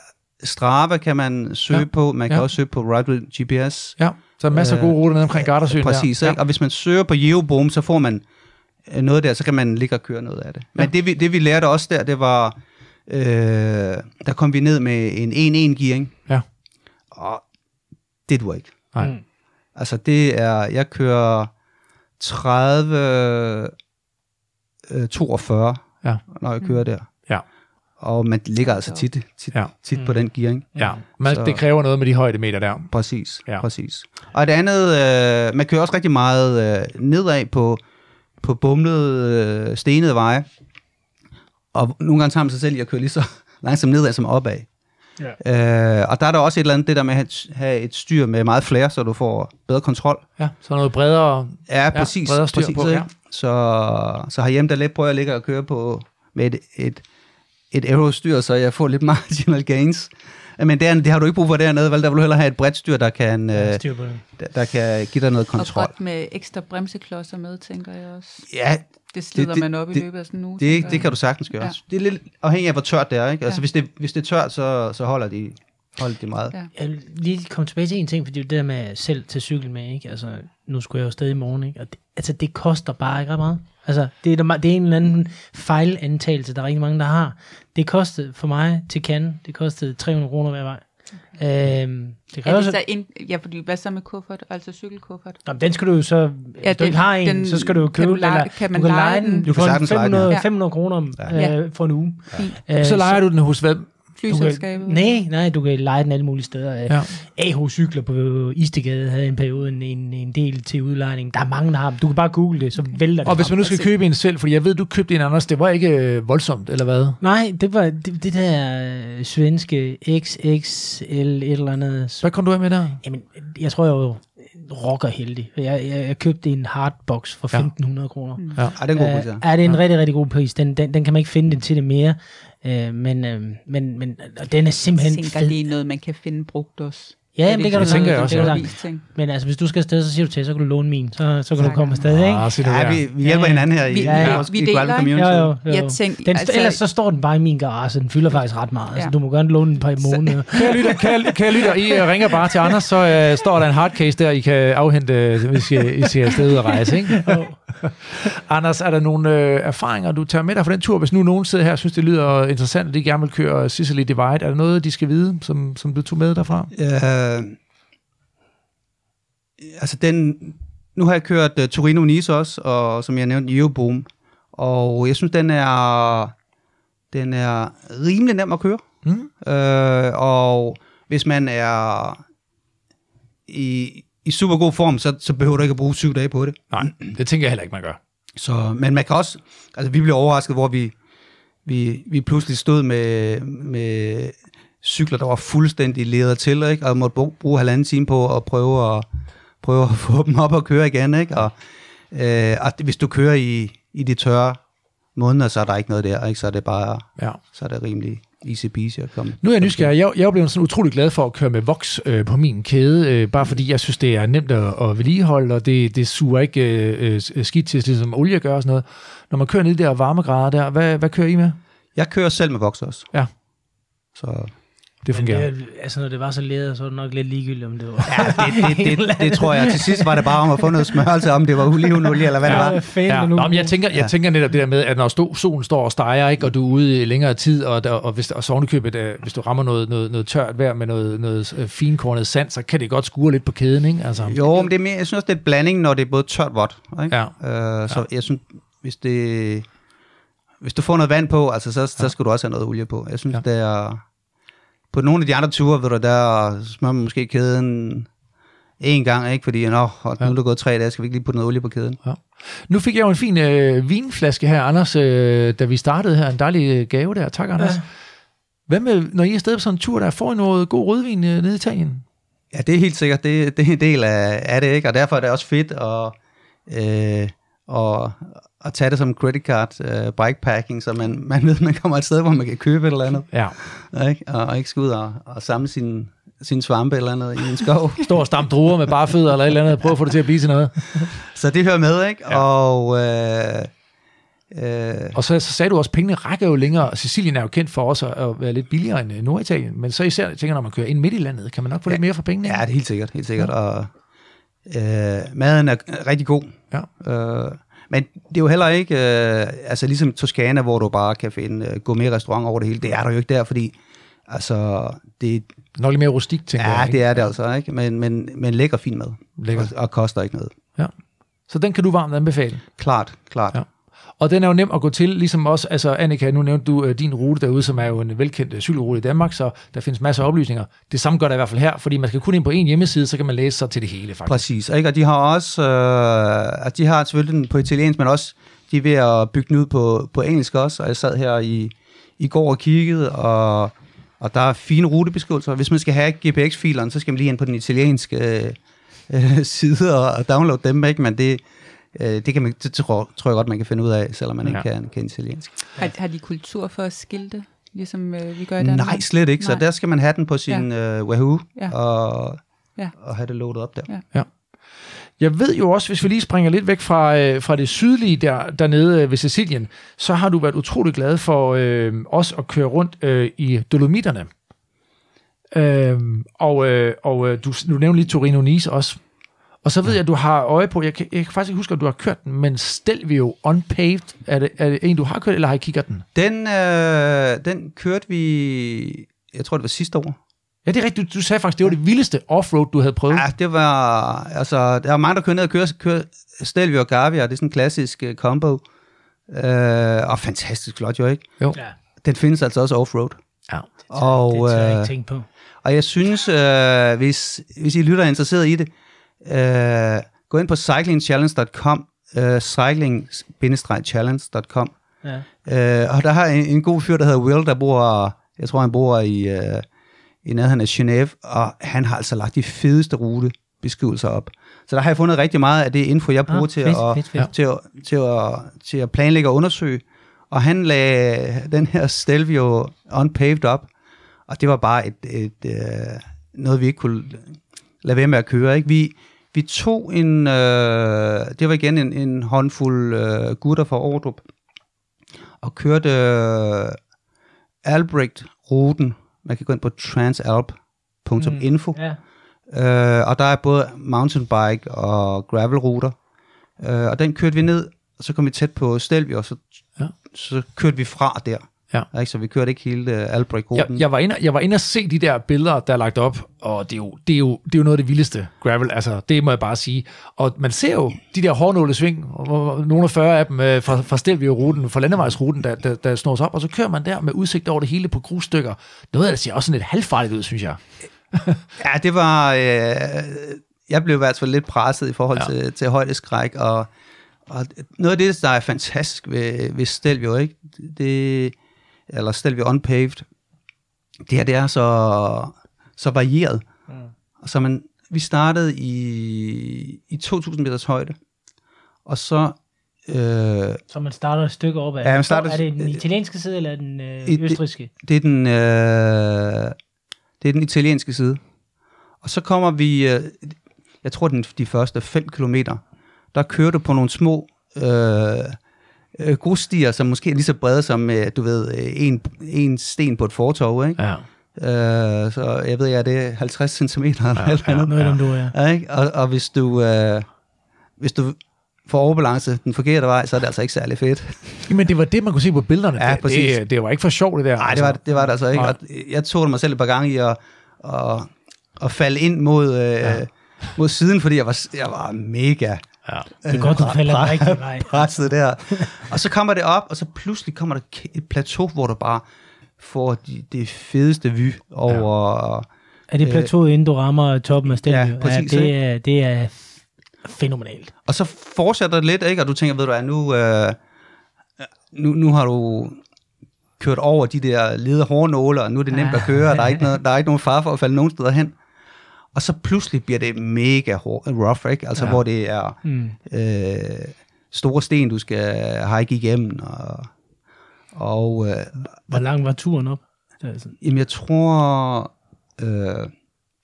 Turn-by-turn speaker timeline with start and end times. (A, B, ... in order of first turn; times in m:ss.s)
0:00.4-0:04.0 A
0:01.7-0:02.4 B
0:04.0-0:06.4 B
0:04.5-0:08.2 A
0:08.9-0:16.2 A
0:17.1-0:17.4 A
0:18.3-0:18.9 A
0:19.8-0:21.5 A
0:22.2-0:23.7 A
0:24.9-0:27.3 A
0:28.0-0:31.6 A
0:28.6-0:29.0 C
0:30.8-0:32.9 B
0:32.9-0:37.8 A
0:38.4-0:40.5 A
0:41.7-0:44.7 A
0:45.4-0:50.2 A
0:50.4-0:53.1 B
0:51.7-0:57.0 A
0:57.7-1:05.9 A
1:03.5-1:04.2 D
1:05.6-1:08.5 C
1:08.5-1:10.0 A
1:09.1-1:11.8 C
1:10.6-1:16.6 A
1:16.7-1:32.8 D
1:32.4-1:35.4 C
1:35.4-1:43.3 D
1:36.6-1:39.7 C
1:39.4-1:40.3 A
1:40.3-1:42.6 C
1:42.8-1:43.9 B
1:44.2-1:45.2 C
1:44.3-1:53.6 D
1:53.2-1:57.2 B
1:53.4-1:53.9 C
1:57.2-2:02.3 D
2:02.2-2:03.0 B
2:03.0-2:15.6 D
2:08.4-2:08.6 C
2:08.8-2:09.5 A
2:15.0-2:19.0 C
2:17.4-2:22.5 D
2:17.7-2:18.7 B
2:21.6-2:22.1 C
2:22.1-2:23.1 B
2:22.6-2:25.5 A
2:23.2-2:24.5 D
2:23.5-2:26.8 C
2:25.1-2:31.1 D
2:28.8-2:29.3 C
2:30.0-2:30.4 C
2:30.5-2:46.7 B
2:37.1-2:37.8 D
2:46.7-2:47.6 A
2:49.6-2:56.3 A
2:57.1-2:58.9 A
2:59.4-3:02.2 A
3:03.5-3:06.9 A
3:06.7-3:08.0 B
3:08.4-3:11.0 A
3:11.6-3:19.1 A
3:19.6-3:21.5 A
3:22.1-3:24.6 A
3:25.2-3:29.9 A
3:29.4-3:41.6 B
3:42.0-3:43.1 A
3:44.2-3:44.6 A
3:45.0-3:45.5 B
3:45.1-3:50.7 D
3:48.1-3:52.8 A
3:52.4-3:53.8 D
3:52.4-4:04.4 B
4:04.2-4:09.7 A
4:04.4-4:04.7 C
4:07.1-4:07.4 B
4:10.6-4:14.0 A
4:14.9-4:18.1 A
4:18.8-4:22.0 A
4:22.0-4:27.9 B
4:28.7-4:32.0 B
4:32.5-4:36.2 A
4:36.7-4:48.2 A
4:48.0-4:51.2 B
4:51.1-4:53.7 A
4:54.5-4:55.2 A
4:55.1-5:02.6 B
5:01.9-5:03.9 A
5:04.7-5:13.8 A
5:14.3-5:15.5 A
5:15.8-5:17.2 B
5:16.6-5:20.6 A
5:19.4-5:19.7 B
5:21.5-5:22.7 B
5:22.8-5:23.6 A
5:24.2-5:34.4 B
5:34.3-5:55.5 A
5:55.8-5:59.6 C
5:58.6-6:02.4 A
6:03.0-6:03.9 A
6:05.2-6:14.3 B
6:15.5-6:19.0 B
6:19.6-6:26.0 B
6:26.2-6:30.2 A
6:30.6-6:33.3 B
6:33.1-6:38.6 A
6:39.3-6:41.5 A
6:42.0-6:43.2 A
6:43.9-6:45.0 A
6:44.0-6:45.3 D
6:45.6-6:48.7 A
6:49.2-6:54.7 A
6:55.4-6:59.6 A
7:00.2-7:13.7 A
7:06.3-7:07.3 D
7:14.3-7:24.2 A
7:25.4-7:26.8 A
7:27.6-7:31.8 A
7:31.2-7:32.0 D
7:32.5-7:36.0 A
7:36.6-7:39.5 A
7:40.1-7:43.8 A
7:43.6-8:00.6 B
8:01.1-8:01.4 B
8:01.6-8:06.7 A
8:07.3-8:11.4 A
8:11.9-8:13.1 A
8:14.1-8:16.4 A
8:17.2-8:21.0 A
8:21.9-8:23.6 A
8:23.7-8:27.7 D
8:24.8-8:25.8 A
8:27.0-8:29.6 A
8:30.2-8:31.2 A
8:32.0-8:35.6 A
8:36.1-8:38.4 A
8:39.0-8:50.1 A
8:43.8-8:44.0 B
8:47.2-8:47.9 B
8:47.7-8:48.4 D
8:50.8-8:54.4 A
8:54.5-8:57.8 B
8:55.8-8:56.4 A
8:57.4-9:05.7 A
9:06.2-9:12.0 A
9:06.3-9:08.7 D
9:12.6-9:15.5 A
9:15.9-9:20.7 D
9:16.0-9:16.3 A
9:17.6-9:18.5 A
9:20.9-9:23.6 A
9:24.4-9:25.8 A
9:26.6-9:31.4 A
9:28.7-9:29.6 D
9:32.1-9:39.9 A
9:35.6-9:36.0 D
9:40.7-9:41.8 A
9:41.9-9:43.6 D
9:43.6-9:45.9 A